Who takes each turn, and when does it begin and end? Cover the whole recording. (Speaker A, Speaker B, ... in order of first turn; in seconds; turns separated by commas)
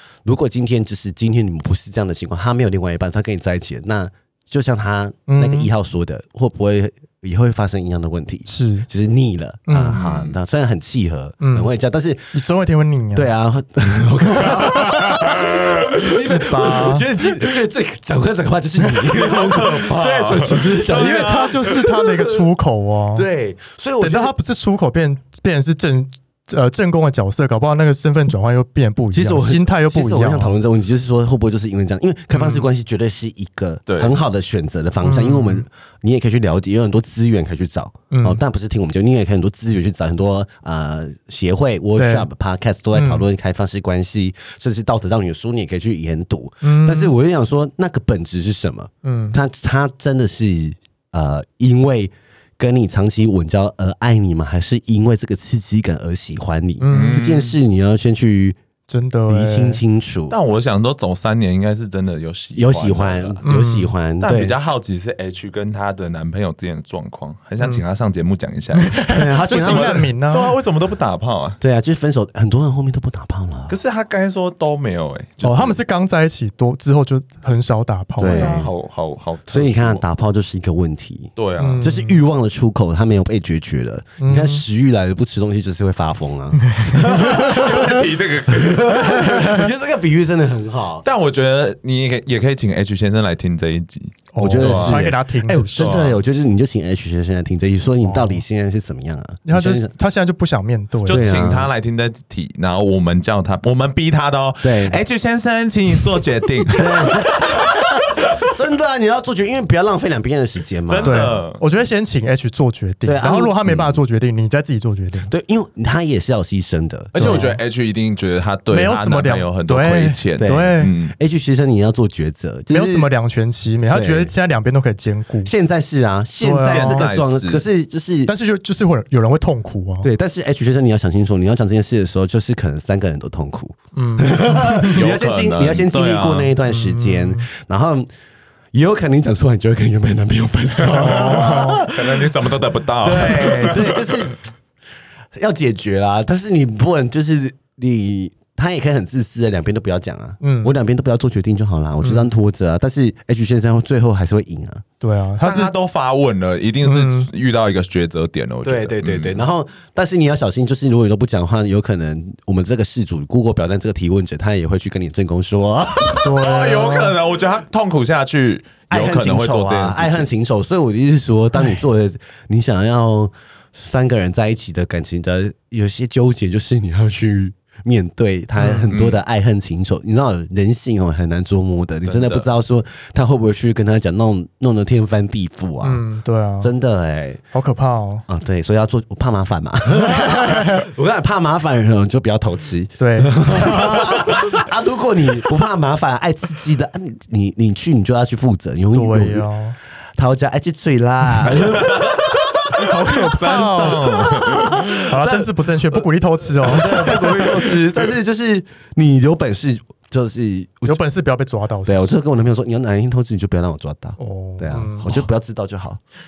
Speaker A: 0.2-12.3, Speaker B: 5.3-5.7, Speaker B: 8.5-8.9, Speaker B: 9.7-10.1, Speaker C: 9.9-10.3, Speaker B: 11.4-11.7, Speaker B: 12.3-13.3, Speaker A: 13.1-22.5, Speaker C: 15.0-15.7, Speaker B: 16.1-17.1, Speaker C: 19.1-21.6, Speaker B: 20.9-23.3, Speaker A: 23.1-24.4, Speaker B: 24.0-30.6, Speaker A: 29.1-58.6, Speaker B: 32.3-32.6, Speaker C: 33.9-34.1, Speaker B: 35.0-35.6, Speaker B: 38.1-38.4, Speaker B: 42.0-42.3, Speaker B: 42.9-43.2, Speaker B: 46.6-47.2, Speaker B: 49.0-49.4, Speaker B: 56.8-57.2, Speaker C: 56.9-57.6, Speaker B: 58.9-59.8, Speaker A: 59.3-60.4, Speaker C: 60.3-63.5, Speaker A: 62.5-64.6, Speaker B: 63.4-63.9, Speaker C: 64.2-71.6, Speaker B: 68.8-70.6, Speaker A: 69.1-70.1, Speaker A: 71.6-73.8, Speaker C: 73.7-75.8, Speaker B: 75.4-78.7, Speaker A: 78.2-78.7, Speaker C: 78.2-80.0, Speaker A: 79.5-91.0, Speaker C: 81.4-81.9, Speaker B: 81.6-82.2, Speaker B: 84.2-84.6, Speaker B: 86.7-87.6, Speaker C: 86.9-89.2, Speaker B: 89.3-89.7, Speaker C: 91.0-95.1, Speaker B: 94.3-96.0, Speaker A: 94.4-99.9, Speaker C: 95.8-96.2, Speaker B: 98.0-98.4, Speaker B: 99.5-101.3, Speaker C: 101.1-107.6, Speaker A: 101.1-101.7, Speaker A: 104.6-105.0, Speaker A: 106.8-111.3, Speaker C: 110.9-111.6, Speaker B: 111.0-115.3, Speaker A: 113.0-114.0, Speaker A: 115.3-117.5, Speaker C: 117.1-121.2, Speaker B: 117.2-117.6, Speaker B: 118.7-120.9, Speaker A: 120.4-123.1, Speaker B: 122.7-125.5, Speaker A: 123.9-124.3, Speaker A: 125.4-128.3, Speaker B: 126.4-127.1, Speaker C: 126.6-127.6, Speaker B: 128.3-130.1, Speaker A: 130.0-138.1, Speaker B: 133.9-134.9, Speaker C: 134.6-136.6, Speaker B: 136.7-137.5, Speaker A: 138.7-142.3, Speaker C: 140.8-144.3, Speaker B: 141.0-141.8, Speaker A: 143.0-144.4, Speaker A: 145.4-154.8, Speaker B: 150.4-150.8, Speaker B: 152.0-152.3, Speaker B: 155.0-155.7, Speaker C: 155.4-159.4, Speaker B: 156.8-157.3, Speaker A: 158.6-166.4, Speaker B: 166.2-167.2, Speaker C: 166.3-170.3, Speaker A: 168.9-186.1, Speaker B: 178.6-178.9, Speaker C: 178.9-179.2, Speaker C: 182.0-182.5, Speaker B: 185.8-186.7, Speaker A: 186.6-187.4, Speaker B: 187.5-188.2, Speaker A: 188.3-199.5, Speaker B: 190.2-190.8, Speaker B: 193.0-193.9, Speaker B: 198.9-199.8, Speaker A: 200.2-206.1, Speaker B: 202.8-204.3, Speaker C: 203.0-205.0, Speaker B: 205.1-207.6, Speaker A: 206.6-211.0, Speaker B: 210.9-212.2, Speaker A: 211.9-216.0, Speaker B: 214.2-215.1